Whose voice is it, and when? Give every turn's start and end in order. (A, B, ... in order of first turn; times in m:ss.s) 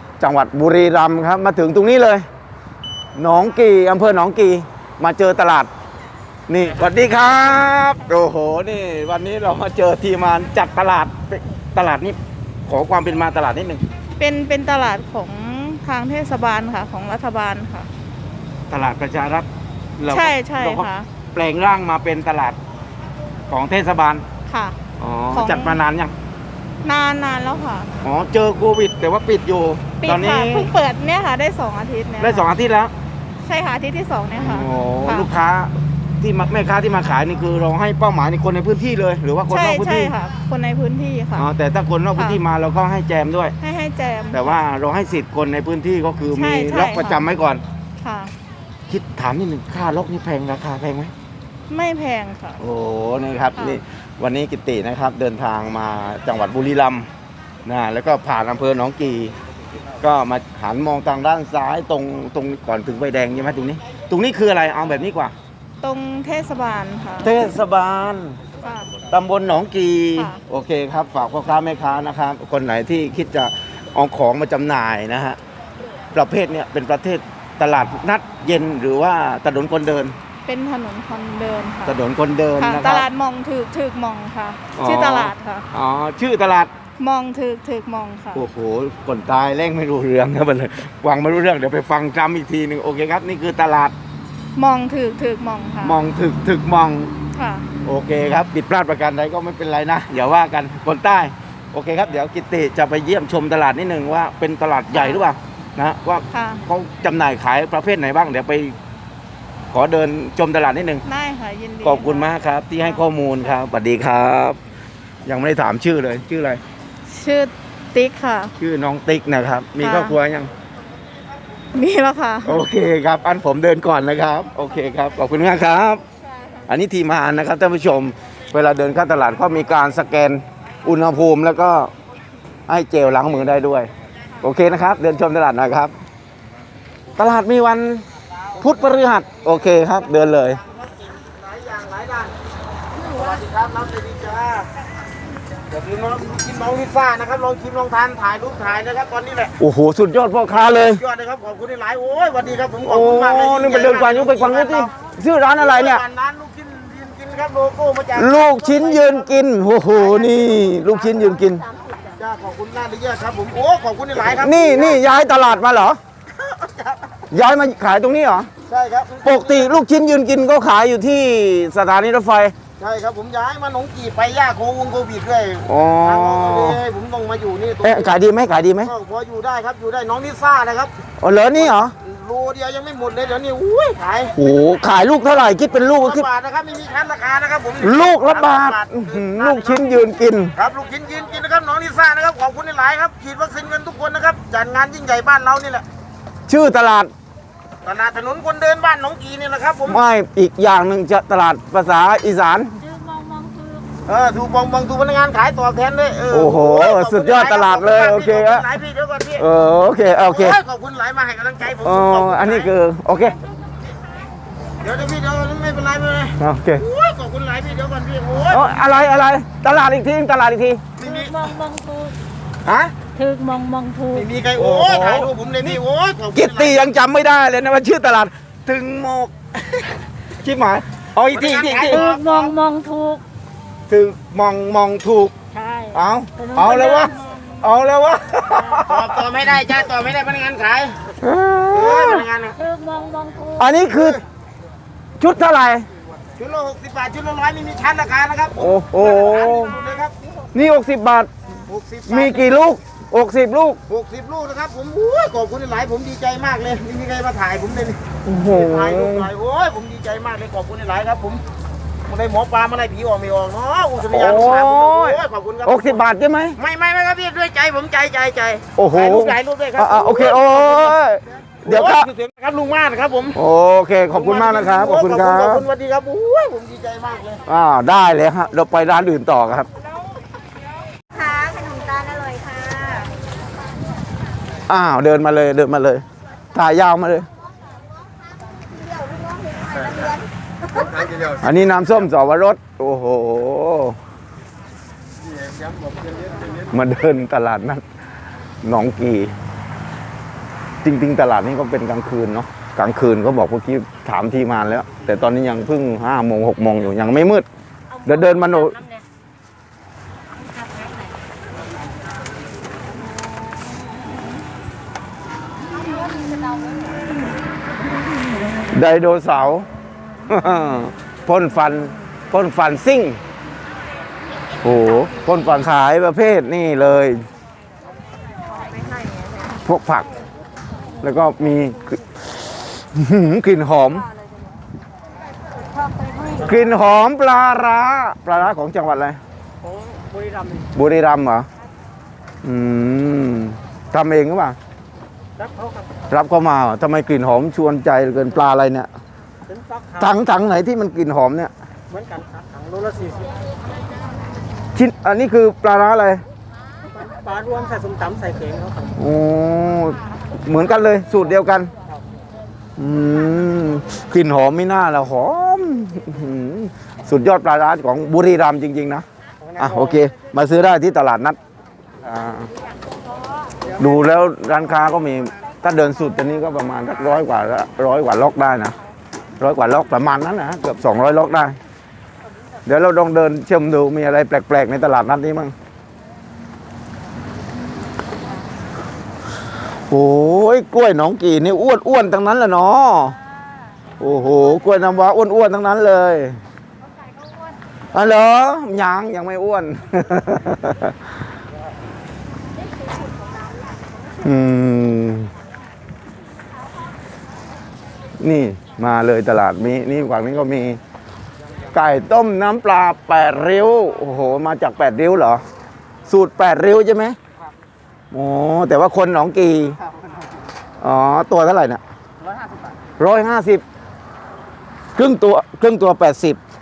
0:00.2-0:02.3 A
0:03.2-0:05.7 A
0:06.5-0:13.8 A
0:14.2-0:17.9 B
0:18.7-0:19.5 A
0:20.0-0:22.6 A
0:20.1-0:21.1 B
0:23.5-0:24.2 A
0:24.5-0:24.8 B
0:25.0-0:26.1 A
0:25.3-0:25.8 B
0:26.8-0:27.9 B
0:28.0-0:30.7 A
0:30.0-0:32.5 B
0:32.2-0:32.9 A
0:33.4-0:35.3 B
0:34.4-0:40.1 A
0:39.5-0:41.5 B
0:41.4-0:43.6 A
0:42.2-0:42.4 B
0:43.6-0:44.6 B
0:44.3-0:47.6 A
0:46.3-0:47.3 B
0:48.0-0:48.3 B
0:48.9-0:51.1 A
0:51.7-0:52.6 B
0:52.6-0:57.1 A
0:57.6-0:59.3 A
1:00.0-1:05.3 A
1:05.8-1:07.5 B
1:07.2-1:08.4 A
1:08.6-1:08.9 B
1:09.1-1:15.4 A
1:10.2-1:10.4 B
1:16.1-1:20.2 A
1:20.5-1:22.0 B
1:21.8-1:23.1 A
1:22.6-1:25.7 B
1:24.8-1:26.7 A
1:27.0-1:28.4 B
1:28.3-1:34.0 A
1:34.6-1:36.0 B
1:35.8-1:37.1 A
1:37.3-1:37.7 B
1:37.8-1:48.8 A
1:44.9-1:45.2 B
1:46.3-1:46.6 B
1:49.7-1:51.0 A
1:51.0-1:52.3 B
1:51.8-1:54.6 A
1:55.2-1:56.6 A
1:57.1-1:58.5 B
1:58.6-2:00.5 A
1:59.8-2:00.2 B
2:01.7-2:02.7 B
2:02.4-2:06.0 A
2:06.7-2:11.9 A
2:12.7-2:13.9 A
2:14.4-2:15.9 A
2:17.2-2:18.0 A
2:18.6-2:20.6 A
2:20.7-2:22.3 C
2:23.0-2:24.7 C
2:25.7-2:29.5 C
2:29.6-2:31.0 A
2:30.7-2:34.9 C
2:32.8-2:36.0 A
2:35.5-2:39.3 C
2:38.2-2:41.6 A
2:42.2-2:45.0 C
2:44.2-2:46.0 A
2:46.4-2:47.0 C
2:47.3-2:48.5 A
2:48.7-2:49.8 C
2:49.2-2:52.5 A
2:52.8-2:58.2 C
2:55.7-2:56.8 A
2:57.8-2:58.9 A
2:58.8-3:00.9 C
3:01.2-3:01.9 A
3:01.5-3:04.3 C
3:04.4-3:06.3 A
3:06.0-3:10.0 C
3:07.8-3:10.5 A
3:10.6-3:15.8 C
3:16.5-3:17.1 A
3:17.8-3:20.0 C
3:19.9-3:22.8 A
3:22.8-3:23.9 D
3:24.1-3:29.4 C
3:26.3-3:28.6 A
3:29.4-3:30.6 A
3:30.0-3:32.7 C
3:31.8-3:33.4 A
3:34.8-3:38.8 C
3:36.4-3:36.8 A
3:38.5-3:40.8 A
3:41.0-3:41.5 C
3:41.0-3:42.2 D
3:42.6-3:42.9 A
3:43.2-3:44.3 D
3:44.1-3:46.8 C
3:44.6-3:45.8 A
3:46.3-3:52.1 A
3:51.3-3:52.5 C
3:51.9-3:53.2 D
3:53.9-3:55.3 A
3:55.5-3:57.3 D
3:55.9-3:59.2 A
3:58.9-4:01.2 C
4:01.2-4:02.2 A
4:01.7-4:02.6 C
4:02.6-4:03.7 D
4:03.6-4:04.2 A
4:04.0-4:04.2 C
4:05.2-4:05.8 A
4:06.4-4:10.2 C
4:08.6-4:09.7 A
4:10.5-4:11.3 A
4:11.6-4:12.5 C
4:12.1-4:13.8 A
4:13.9-4:21.4 C
4:18.2-4:19.3 A
4:22.1-4:26.0 C
4:24.1-4:26.6 A
4:26.6-4:31.0 C
4:28.8-4:32.1 A
4:31.6-4:33.4 C
4:33.3-4:35.6 A
4:34.1-4:37.4 C
4:37.4-4:39.7 A
4:41.2-4:43.1 D
4:44.7-4:47.3 A
4:49.0-4:50.2 D
4:51.4-4:54.0 A
4:56.7-4:57.8 A
4:58.6-4:59.4 A
5:00.8-5:07.5 A
5:08.0-5:08.8 A
5:10.7-5:11.1 D
5:16.3-5:16.6 D
5:18.7-5:19.7 A
5:20.3-5:23.2 A
5:24.6-5:27.2 A
5:29.6-5:30.1 A
5:31.0-5:32.0 A
5:32.9-5:34.1 A
5:35.8-5:36.5 D
5:36.4-5:39.2 A
5:40.7-5:41.5 A
5:42.4-5:44.6 A
5:45.4-5:45.8 C
5:46.1-5:48.9 A
5:49.5-5:50.1 C
5:50.0-5:51.5 A
5:51.9-5:53.2 C
5:54.8-5:56.2 A
5:57.0-5:58.9 C
5:59.0-6:01.7 A
6:02.8-6:09.0 A
6:09.6-6:11.4 A
6:12.0-6:12.5 A
6:13.8-6:18.8 A
6:19.4-6:21.6 A
6:22.7-6:25.5 A
6:29.9-6:33.2 A
6:34.0-6:36.4 A
6:37.9-6:41.0 A
6:44.2-6:45.3 A
6:48.2-6:50.8 A
6:51.7-6:55.4 A
6:56.1-6:57.2 A
6:58.1-6:59.8 A
7:00.8-7:01.8 A
7:03.0-7:03.6 A
7:05.0-7:06.4 A